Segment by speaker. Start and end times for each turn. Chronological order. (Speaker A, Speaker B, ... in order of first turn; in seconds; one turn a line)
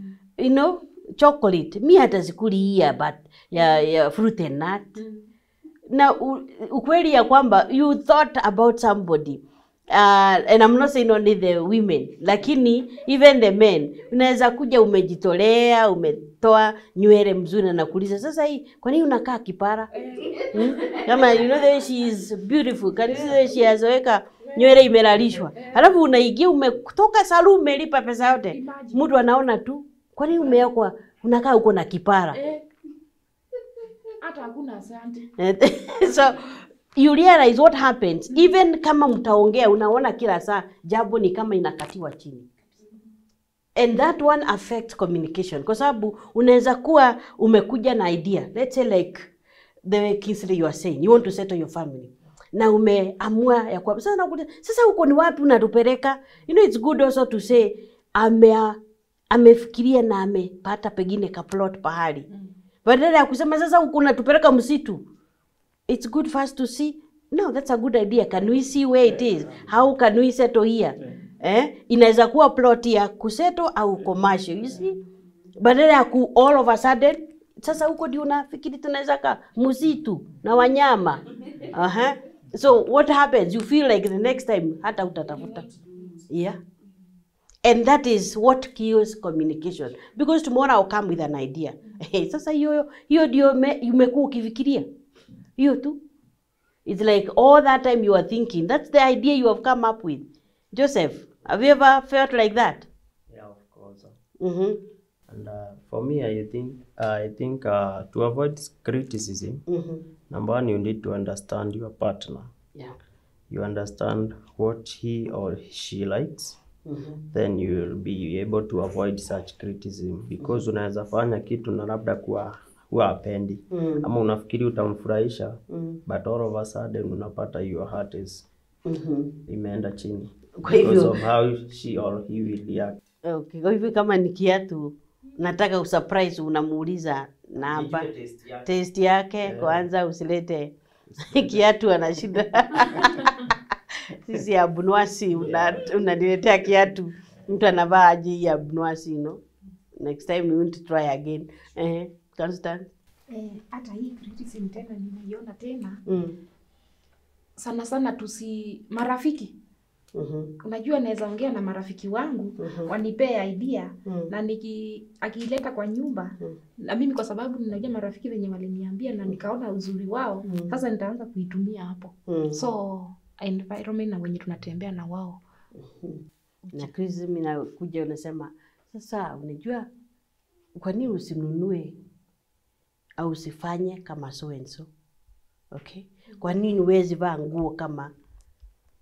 Speaker A: 0.4-5.0
Speaker A: 5.9-19.9
Speaker B: 20.0-21.0
Speaker A: 20.4-32.4
Speaker B: 25.5-25.9
Speaker B: 28.5-29.0
Speaker B: 32.3-32.6
Speaker B: 34.2-35.3
Speaker A: 35.4-36.4
Speaker A: 37.0-42.5
Speaker A: 43.8-49.3
Speaker A: 49.9-58.8
Speaker A: 59.3-62.3
Speaker A: 62.8-65.0
Speaker A: 65.9-75.0
Speaker A: 75.6-85.7
Speaker A: 86.3-86.6
Speaker A: 87.6-94.8
Speaker A: 95.6-96.0
Speaker A: 96.8-102.9
Speaker C: 103.3-104.2
Speaker A: 104.4-104.8
Speaker C: 105.3-109.6
Speaker A: 109.7-110.0
Speaker C: 110.3-112.5
Speaker C: 113.5-116.6
Speaker A: 116.8-117.2
Speaker C: 117.2-128.5
Speaker A: 123.7-124.0
Speaker A: 125.7-126.0
Speaker A: 128.8-129.3
Speaker C: 129.5-133.0
Speaker A: 130.6-131.1
Speaker A: 133.2-138.1
Speaker C: 137.6-138.7
Speaker A: 138.6-143.5
Speaker C: 139.4-139.8
Speaker A: 144.1-149.4
Speaker C: 145.4-145.8
Speaker A: 150.0-152.9
Speaker B: 153.3-156.0
Speaker A: 156.1-156.3
Speaker B: 157.6-159.5
Speaker A: 160.1-160.5
Speaker B: 160.6-175.4
Speaker A: 162.6-162.9
Speaker A: 170.4-170.7
Speaker A: 172.3-172.6
Speaker A: 176.7-179.9
Speaker A: 180.8-181.9
Speaker A: 183.2-184.9
Speaker A: 185.7-188.1